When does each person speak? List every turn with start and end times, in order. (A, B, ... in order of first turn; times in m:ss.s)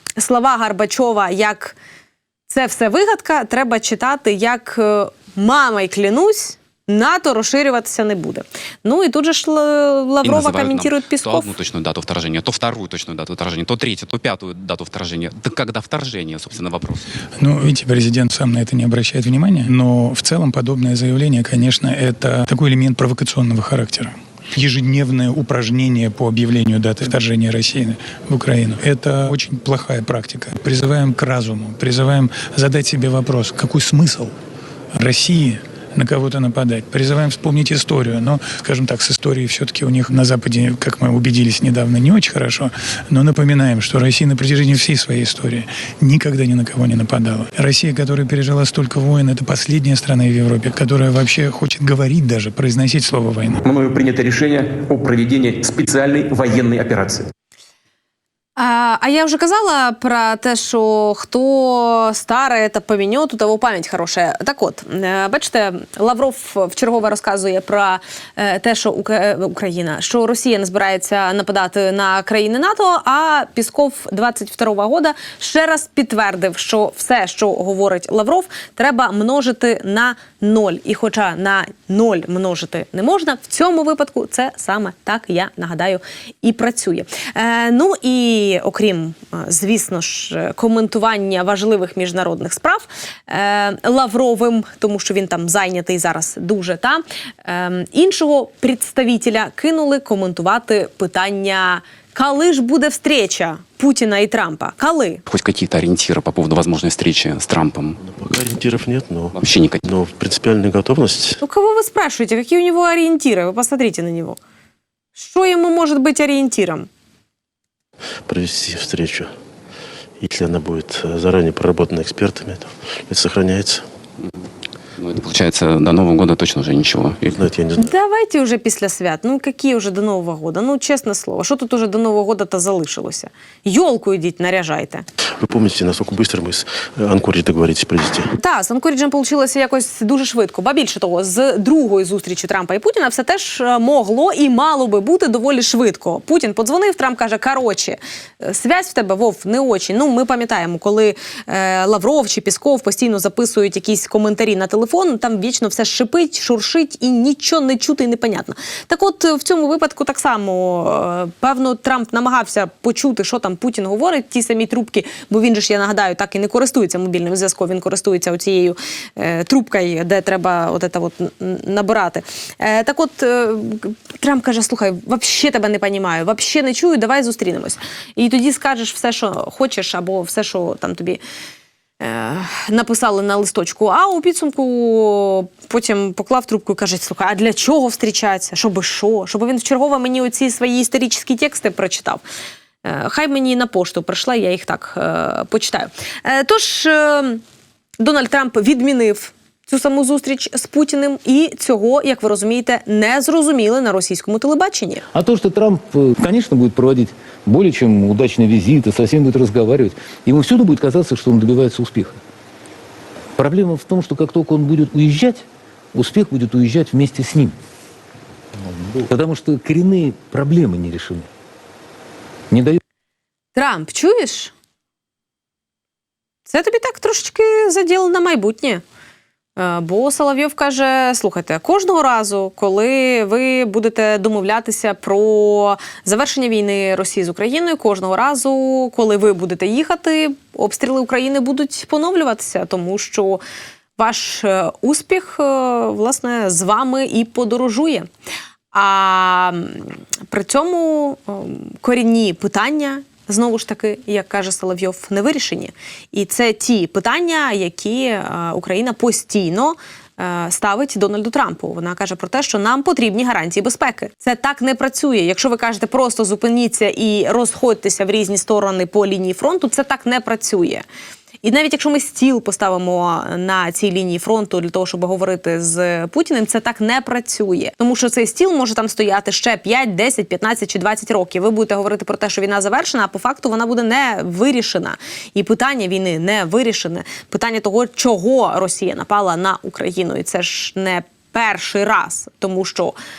0:00.2-0:01.8 A
0:02.5-0:11.5 A
0:10.2-0:17.1 B
0:17.4-0:34.3 C
0:34.9-0:53.6 C
0:53.6-0:57.3 D
0:58.6-1:45.2 A
1:45.3-1:48.0 B
1:48.0-1:51.4 E
1:49.3-1:49.8 B
1:51.4-1:54.4 A
1:55.2-1:56.9 A
1:58.3-1:59.3 E
2:00.2-2:03.8 E
2:05.0-2:07.4 B
2:07.3-2:07.9 E
2:07.8-2:15.1 A
2:15.4-2:18.3 E
2:18.4-3:01.2 A
3:02.0-3:12.2 A
3:12.8-3:17.4 A
3:18.0-3:25.0 A
3:25.1-3:32.2 F
3:33.4-3:37.6 F
3:38.8-3:41.3 F
3:42.5-3:42.8 F
3:43.6-3:44.5 A
3:46.5-3:48.8 A
3:49.6-4:03.4 A
4:04.0-4:08.1 A
4:08.7-4:30.8 A
4:31.4-4:53.0 A